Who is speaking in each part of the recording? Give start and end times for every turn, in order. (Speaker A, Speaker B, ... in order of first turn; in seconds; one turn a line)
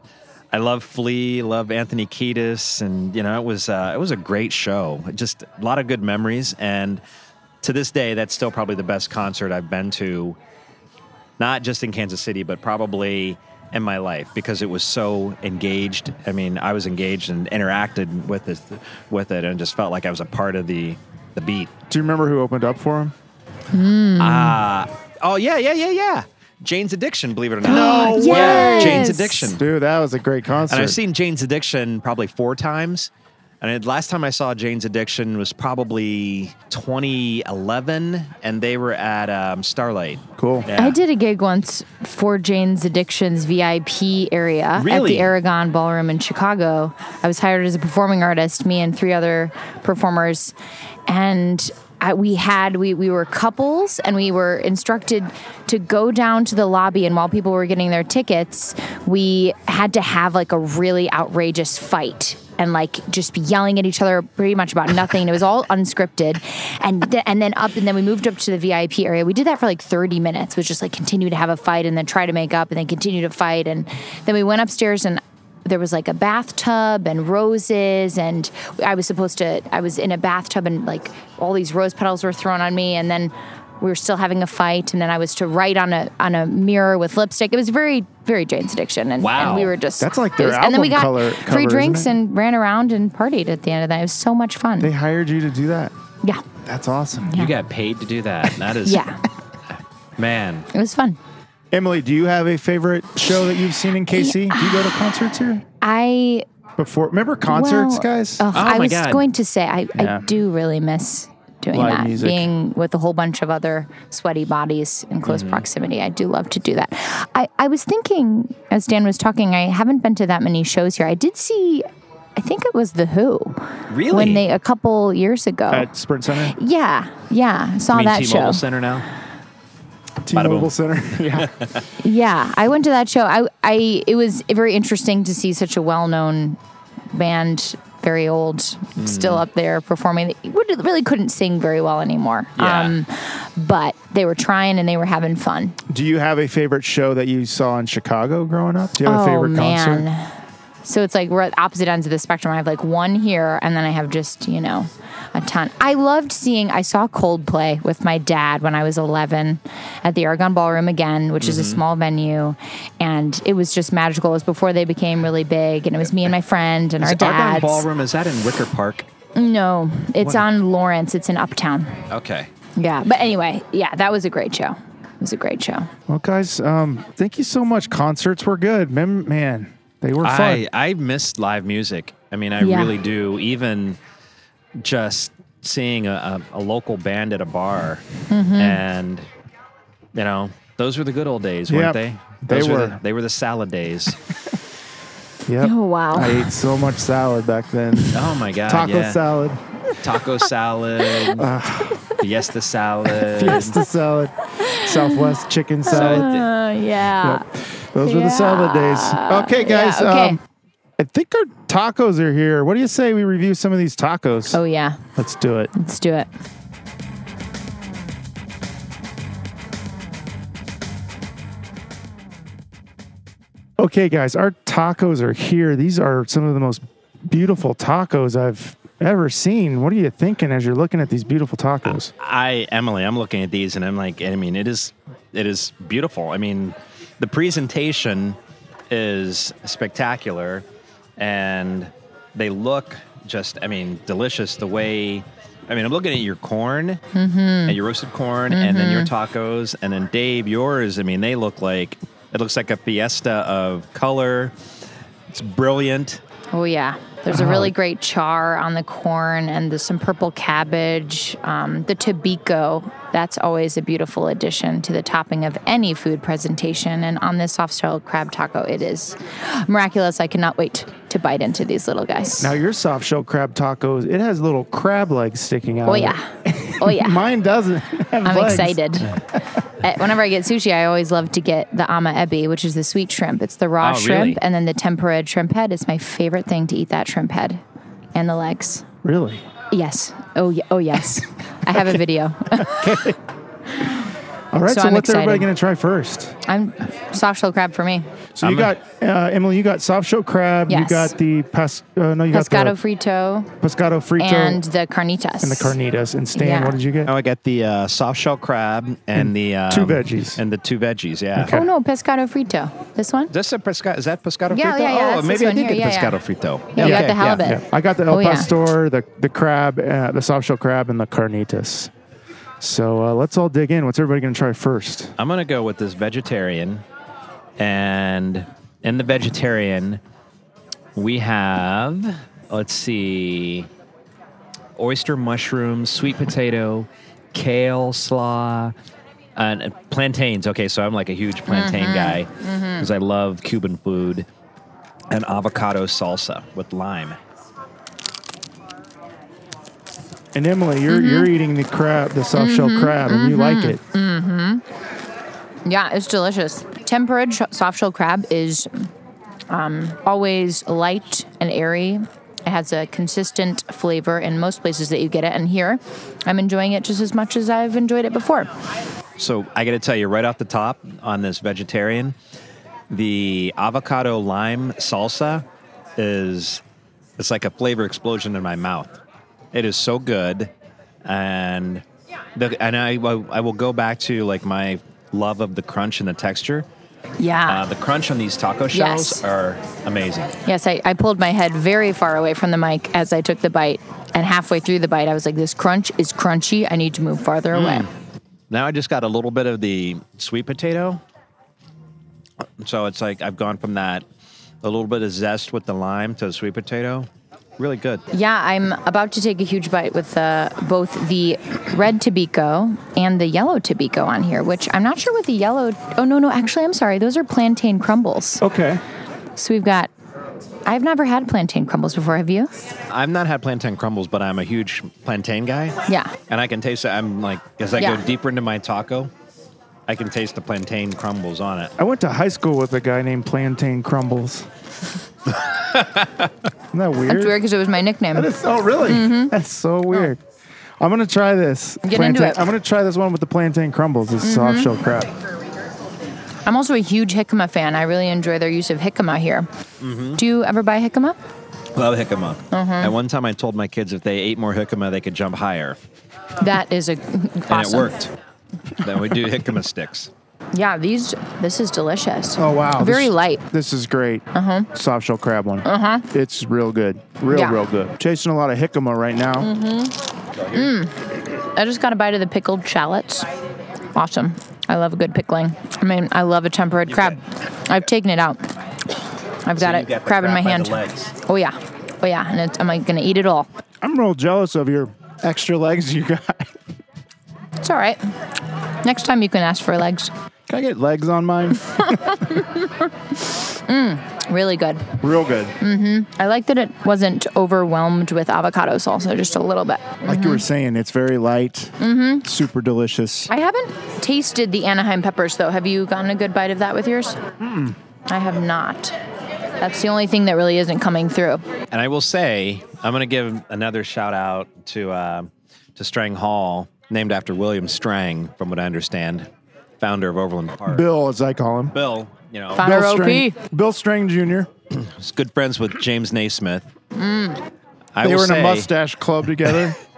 Speaker A: 0.5-7.0
Speaker A: 7.6-10.4
Speaker A: 11.4-21.7
Speaker B: 21.9-23.1
Speaker C: 23.7-24.6
Speaker A: 24.2-29.6
Speaker C: 27.6-29.5
Speaker B: 27.6-31.0
Speaker A: 30.7-33.1
Speaker A: 33.6-41.0
Speaker B: 40.4-40.7
Speaker C: 40.8-50.5
Speaker A: 44.8-45.3
Speaker C: 51.1-94.9
Speaker A: 89.2-89.7
Speaker B: 90.0-92.1
Speaker B: 94.8-95.9
Speaker B: 96.6-97.4
Speaker C: 97.3-97.5
Speaker A: 97.3-99.1
Speaker C: 98.9-99.2
Speaker A: 100.2-100.7
Speaker C: 100.7-101.2
Speaker B: 101.7-105.6
Speaker C: 104.1-104.9
Speaker C: 105.8-106.5
Speaker B: 106.8-108.5
Speaker C: 107.5-125.9
Speaker A: 108.5-109.2
Speaker B: 110.0-110.2
Speaker B: 111.7-112.5
Speaker A: 115.3-115.6
Speaker A: 123.9-124.5
Speaker B: 125.7-126.5
Speaker C: 126.5-128.6
Speaker A: 127.9-129.1
Speaker B: 130.2-131.5
Speaker A: 130.3-130.7
Speaker A: 131.3-131.8
Speaker C: 132.0-136.6
Speaker C: 137.1-145.8
Speaker A: 139.0-139.4
Speaker A: 142.6-142.9
Speaker B: 145.9-150.1
Speaker C: 149.0-150.3
Speaker C: 150.8-167.8
Speaker A: 161.4-161.8
Speaker A: 167.0-169.1
Speaker C: 169.3-172.0
Speaker A: 172.1-172.5
Speaker C: 172.8-175.9
Speaker B: 176.1-180.6
Speaker A: 180.2-184.0
Speaker C: 182.6-183.0
Speaker A: 184.8-188.0
Speaker C: 188.3-188.8
Speaker A: 188.6-189.2
Speaker A: 190.1-194.2
Speaker B: 191.7-193.0
Speaker B: 195.5-199.6
Speaker C: 195.6-196.5
Speaker A: 198.1-199.2
Speaker A: 200.0-201.5
Speaker B: 201.3-202.0
Speaker A: 202.2-203.7
Speaker B: 203.2-206.3
Speaker C: 204.6-205.3
Speaker C: 205.8-207.4
Speaker A: 205.9-206.5
Speaker B: 207.2-210.4
Speaker C: 208.0-210.4
Speaker B: 211.0-214.6
Speaker C: 214.5-215.0
Speaker B: 215.2-215.7
Speaker C: 215.7-216.3
Speaker B: 223.8-232.1
Speaker A: 232.2-238.4
Speaker A: 238.9-240.6
Speaker A: 241.2-247.0
Speaker C: 247.1-247.8
Speaker A: 247.7-254.5
Speaker C: 248.5-249.1
Speaker A: 255.3-256.2
Speaker C: 256.5-272.5
Speaker B: 257.4-257.7
Speaker B: 272.4-279.4
Speaker C: 275.9-277.2
Speaker C: 278.2-279.2
Speaker C: 279.8-287.6
Speaker A: 283.8-284.4
Speaker C: 288.1-288.9
Speaker B: 289.0-289.4
Speaker C: 289.7-293.1
Speaker B: 292.6-293.2
Speaker B: 294.5-296.4
Speaker C: 294.7-295.5
Speaker C: 296.4-298.1
Speaker B: 298.4-302.8
Speaker A: 298.4-298.7
Speaker C: 300.7-301.1
Speaker C: 302.3-303.5
Speaker B: 303.6-304.6
Speaker C: 304.2-305.8
Speaker B: 305.4-307.1
Speaker C: 306.4-306.8
Speaker A: 307.1-311.6
Speaker B: 309.1-310.4
Speaker B: 311.4-311.7
Speaker C: 311.4-313.3
Speaker A: 313.3-317.4
Speaker C: 314.5-316.2
Speaker C: 316.7-318.5
Speaker B: 316.8-321.9
Speaker B: 322.6-325.1
Speaker A: 325.2-326.8
Speaker A: 327.6-330.0
Speaker A: 330.9-333.7
Speaker A: 334.8-338.7
Speaker A: 339.4-344.3
Speaker C: 341.5-342.9
Speaker A: 345.1-347.2
Speaker B: 350.3-353.8
Speaker C: 350.9-351.3
Speaker C: 352.4-354.6
Speaker C: 355.7-358.9
Speaker C: 359.5-368.5
Speaker A: 369.2-372.1
Speaker A: 372.9-375.4
Speaker A: 376.0-376.6
Speaker A: 377.2-379.0
Speaker A: 379.5-380.5
Speaker A: 381.0-381.8
Speaker A: 382.4-386.7
Speaker C: 387.2-387.6
Speaker A: 387.5-390.4
Speaker C: 388.7-389.2
Speaker C: 390.4-397.9
Speaker A: 397.5-397.9
Speaker A: 398.5-401.0
Speaker A: 402.6-404.0
Speaker A: 404.6-408.0
Speaker C: 408.1-418.4
Speaker B: 418.4-418.8
Speaker C: 419.4-419.9
Speaker C: 420.7-422.5
Speaker A: 422.9-429.1
Speaker C: 425.9-426.1
Speaker C: 427.8-428.0
Speaker A: 429.9-431.7
Speaker B: 431.8-434.5
Speaker A: 435.7-436.3
Speaker B: 436.7-437.4
Speaker C: 437.1-438.3
Speaker B: 438.1-440.2
Speaker C: 438.9-439.3
Speaker B: 440.8-445.1
Speaker C: 441.8-442.4
Speaker C: 444.2-444.7
Speaker C: 446.4-449.5
Speaker A: 449.8-450.2
Speaker C: 450.2-451.2
Speaker A: 451.7-455.8
Speaker C: 452.5-452.9
Speaker C: 456.4-457.9
Speaker A: 457.5-458.1
Speaker A: 458.8-460.1
Speaker C: 460.5-463.4
Speaker B: 462.4-469.5
Speaker C: 464.3-464.7
Speaker C: 465.6-466.1
Speaker C: 467.3-467.6
Speaker C: 469.4-469.9
Speaker A: 470.4-470.7
Speaker C: 470.5-473.3
Speaker C: 473.9-478.5
Speaker A: 476.9-477.2
Speaker C: 479.4-483.5
Speaker A: 479.6-481.1
Speaker B: 483.8-486.6
Speaker C: 487.6-488.0
Speaker C: 488.8-490.1
Speaker B: 490.5-492.2
Speaker C: 491.9-494.9
Speaker B: 495.0-495.6
Speaker C: 495.6-500.4
Speaker B: 500.0-503.3
Speaker C: 501.8-502.3
Speaker C: 503.3-507.2
Speaker B: 507.4-507.7
Speaker C: 508.1-508.9
Speaker C: 509.6-511.4
Speaker A: 511.7-519.3
Speaker A: 519.8-520.9
Speaker B: 520.7-521.7
Speaker A: 521.7-522.6
Speaker C: 522.5-523.4
Speaker B: 522.6-524.5
Speaker A: 524.7-526.7
Speaker C: 527.0-527.4
Speaker A: 528.0-528.7
Speaker B: 528.0-529.8